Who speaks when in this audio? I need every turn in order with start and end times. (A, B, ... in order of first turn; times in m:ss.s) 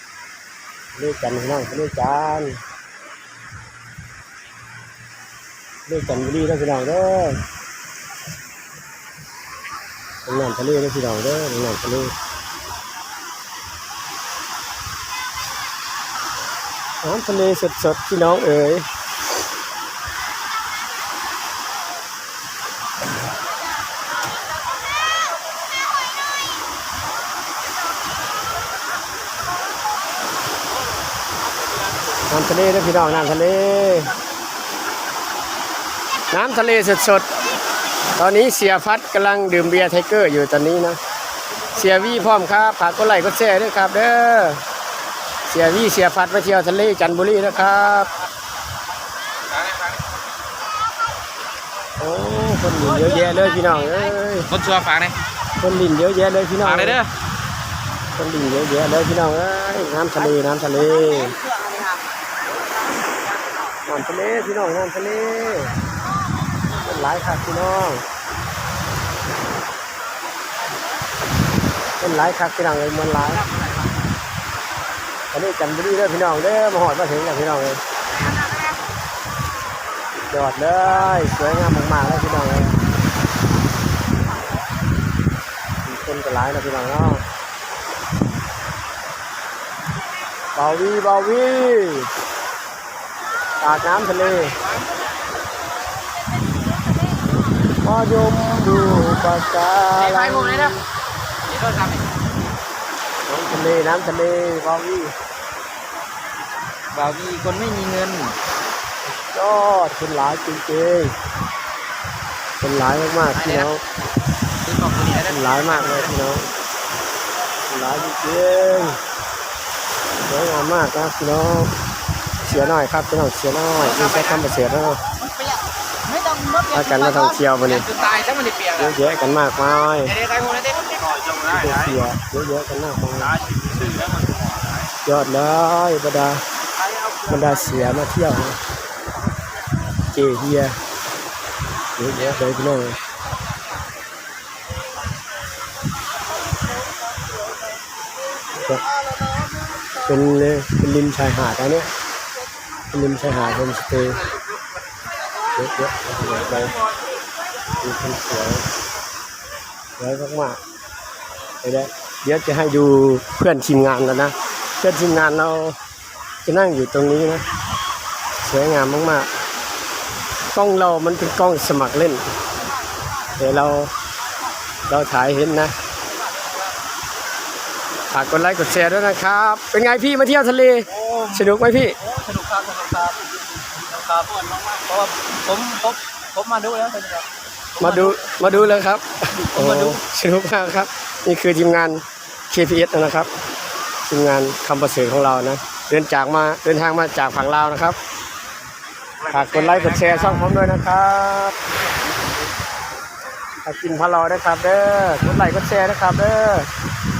0:00.9-0:02.6 A
0:05.9-0:07.4 A
0:10.2-0:12.1 A
0:17.0-0:18.9 A
0:32.3-0:34.1 A
0:36.3-0:37.3 A
0:38.2-0:41.0 A
0:41.7-0:44.6 A
0:45.5-0:48.1 A
0:52.0-0:54.5 A
0:52.9-0:53.7 B
0:54.5-0:55.2 B
0:55.6-0:57.0 A
0:56.6-0:57.1 B
0:58.1-1:01.4 A
1:01.3-1:02.0 B
1:03.8-1:05.8 A
1:06.7-1:08.0 A
1:12.0-1:13.5 A
1:15.3-1:17.8 A
1:20.3-1:22.8 A
1:25.8-1:27.2 A
1:30.6-1:32.1 A
1:33.6-1:34.6 A
1:37.8-1:40.8 A
1:40.0-1:40.8 B
1:41.5-1:42.0 B
1:43.3-1:45.1 A
1:46.9-1:48.4 B
1:49.1-1:51.1 A
1:52.6-1:53.8 A
1:53.4-1:53.7 B
1:54.6-1:56.1 B
1:55.2-1:56.5 A
1:57.7-1:59.0 A
2:00.2-2:01.7 A
2:02.4-2:05.0 A
2:03.9-2:04.4 B
2:06.1-2:08.9 B
2:06.7-2:07.9 A
2:08.7-2:10.2 A
2:10.1-2:11.7 B
2:11.4-2:13.4 A
2:13.4-2:14.4 B
2:15.0-2:16.4 A
2:16.8-2:17.8 B
2:17.3-2:18.6 A
2:20.1-2:20.8 A
2:22.0-2:23.0 A
2:28.6-2:28.8 A
2:30.0-2:31.9 A
2:32.9-2:34.2 A
2:35.5-2:36.8 A
2:37.8-2:38.6 A
2:40.0-2:40.6 A
2:41.6-2:45.8 A
2:46.4-2:47.4 A
2:48.4-2:49.3 A
2:50.5-2:52.2 A
2:53.4-2:53.9 A
2:54.9-2:55.7 A
2:58.1-3:02.0 A
3:00.9-3:07.3 B
3:07.8-3:13.3 A
3:07.8-3:08.4 B
3:09.4-3:10.0 B
3:14.1-3:18.0 A
3:19.2-3:21.6 A
3:19.3-3:20.2 B
3:23.6-3:26.7 A